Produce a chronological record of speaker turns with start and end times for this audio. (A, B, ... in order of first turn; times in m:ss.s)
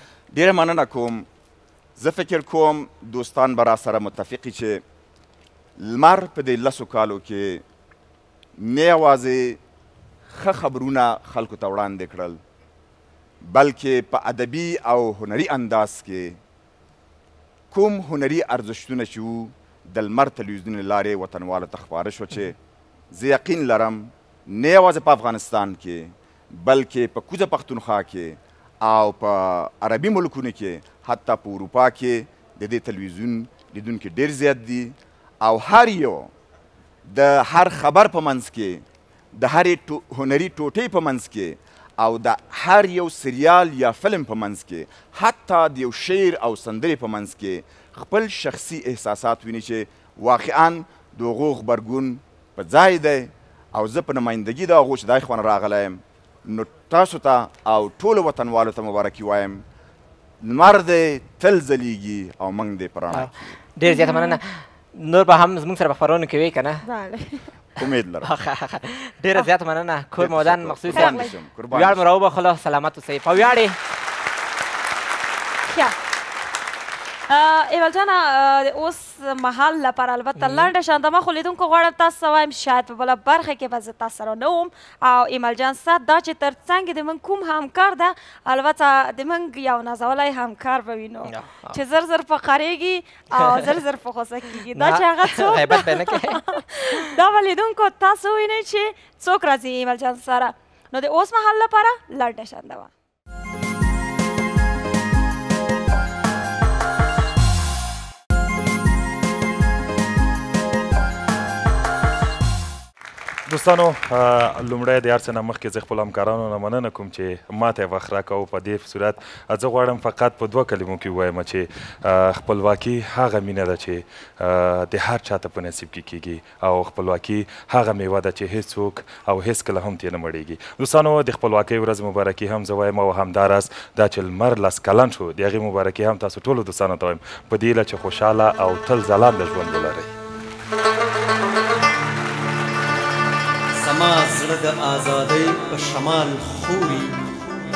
0:00.3-0:01.3 A
0:02.0-0:04.8 A
0:05.8-0:07.6 A
0:08.6-0:09.6 A
0:10.3-0:12.4 A
0:13.4-0:16.4 A
0:17.7-0:22.6 A
0:23.1-0:36.3 A
0:37.1-0:59.6 A
1:00.4-1:03.5 A
1:03.1-1:06.8 B
1:03.8-1:04.4 C
1:06.9-1:07.5 C
1:07.8-1:08.3 A
1:08.2-1:13.8 B
1:10.2-1:12.0 A
1:10.9-1:11.3 C
1:17.3-1:42.9 C
1:20.4-1:20.7 B
1:31.3-1:31.8 B
1:33.4-1:33.7 B
1:34.8-1:36.9 B
1:53.5-2:20.1 D
2:23.8-2:27.2 E